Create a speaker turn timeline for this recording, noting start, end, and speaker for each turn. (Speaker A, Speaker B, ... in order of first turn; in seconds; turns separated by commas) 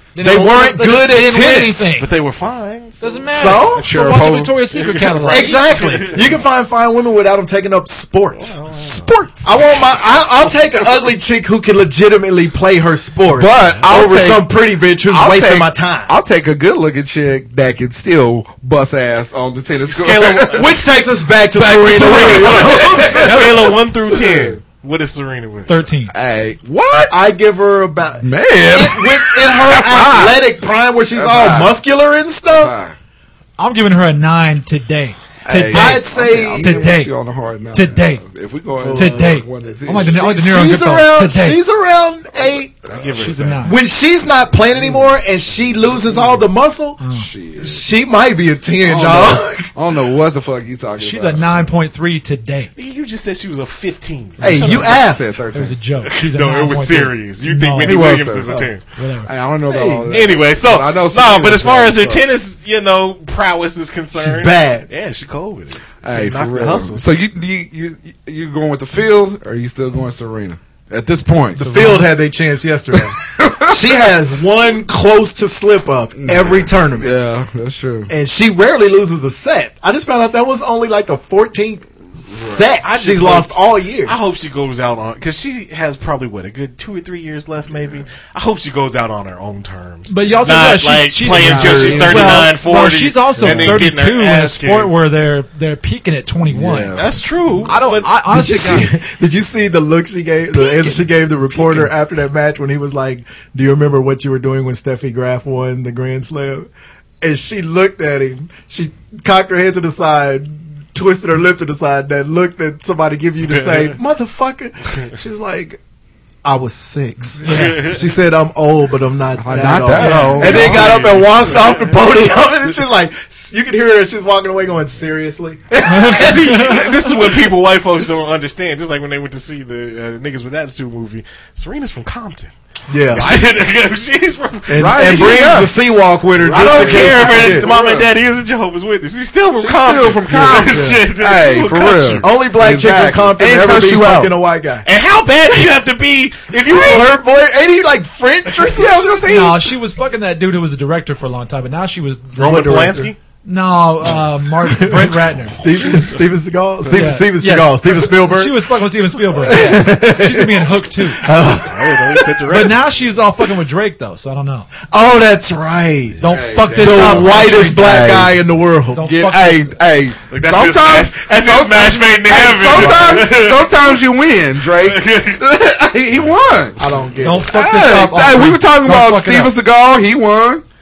Speaker A: 0.1-2.1, Speaker B: 0.2-1.9, Speaker C: 2.0-3.7, Speaker A: 3.0-5.8, Speaker B: 3.3-3.9, Speaker D: 3.7-4.6, Speaker C: 4.7-6.5, Speaker B: 5.2-8.6, Speaker C: 8.3-9.1, Speaker D: 8.8-9.6, Speaker B: 9.4-16.1, Speaker D: 13.3-14.5, Speaker D: 15.0-20.8, Speaker C: 19.7-20.9, Speaker B: 20.4-23.8, Speaker D: 21.5-24.6, Speaker C: 21.9-25.8, Speaker A: 25.7-26.1, Speaker D: 26.1-27.1, Speaker B: 27.1-32.8, Speaker D: 28.2-30.4, Speaker D: 31.1-31.8, Speaker D: 32.5-33.0, Speaker A: 33.6-37.1, Speaker D: 35.5-40.2, Speaker B: 35.7-36.9, Speaker A: 37.7-38.2, Speaker B: 38.8-39.3, Speaker A: 38.9-41.6, Speaker B: 39.9-42.8, Speaker D: 42.8-43.4, Speaker C: 42.9-43.7, Speaker A: 43.2-43.8, Speaker B: 43.6-47.0, Speaker D: 44.8-45.2, Speaker C: 45.7-46.4, Speaker A: 47.0-47.3, Speaker D: 47.1-47.9, Speaker B: 47.6-49.7, Speaker D: 48.8-51.7, Speaker A: 51.0-52.7, Speaker C: 52.8-55.0, Speaker D: 54.4-55.8, Speaker B: 54.4-55.4, Speaker A: 55.5-58.1, Speaker C: 56.1-58.8, Speaker D: 57.8-58.7, Speaker A: 58.9-59.3, Speaker D: 59.2-62.2, Speaker B: 59.7-60.2, Speaker C: 60.1-67.0, Speaker B: 64.2-64.9, Speaker D: 66.0-72.1, Speaker B: 71.6-77.2, Speaker A: 71.8-72.0, Speaker D: 72.9-74.0, Speaker D: 76.2-78.1, Speaker B: 78.1-84.2, Speaker D: 82.3-82.8, Speaker C: 82.8-94.9, Speaker A: 90.1-97.0, Speaker D: 91.3-92.5, Speaker D: 93.4-93.9, Speaker D: 96.5-97.7, Speaker C: 96.9-98.1, Speaker A: 97.7-98.9, Speaker B: 98.3-106.7, Speaker B: 107.2-115.8, Speaker C: 113.4-114.0, Speaker B: 116.5-126.7, Speaker A: 117.4-117.8, Speaker C: 117.5-118.0, Speaker D: 119.3-121.1, Speaker A: 120.0-120.6, Speaker C: 120.2-122.1, Speaker A: 125.9-127.0, Speaker C: 126.1-132.5, Speaker B: 132.9-133.4, Speaker C: 133.1-135.7, Speaker B: 134.7-137.7, Speaker D: 134.8-135.8, Speaker D: 136.3-138.1, Speaker C: 136.5-142.3, Speaker D: 139.6-144.4, Speaker B: 140.5-141.0, Speaker B: 142.2-144.9, Speaker C: 144.8-147.2, Speaker B: 146.7-149.4, Speaker D: 148.7-149.7, Speaker A: 149.3-152.5, Speaker C: 152.4-153.2, Speaker B: 152.4-153.1, Speaker A: 153.4-155.7, Speaker B: 154.7-158.6, Speaker C: 155.8-156.1, Speaker A: 156.9-161.2, Speaker B: 159.4-162.4, Speaker C: 161.5-162.8, Speaker A: 162.5-164.7, Speaker B: 164.9-166.2, Speaker A: 166.2-168.1, Speaker D: 166.2-168.4, Speaker B: 166.8-169.2, Speaker A: 168.9-169.8, Speaker D: 169.0-180.6, Speaker C: 170.3-174.0, Speaker B: 172.7-173.3, Speaker C: 174.7-175.5, Speaker B: 176.8-177.5, Speaker A: 177.2-179.6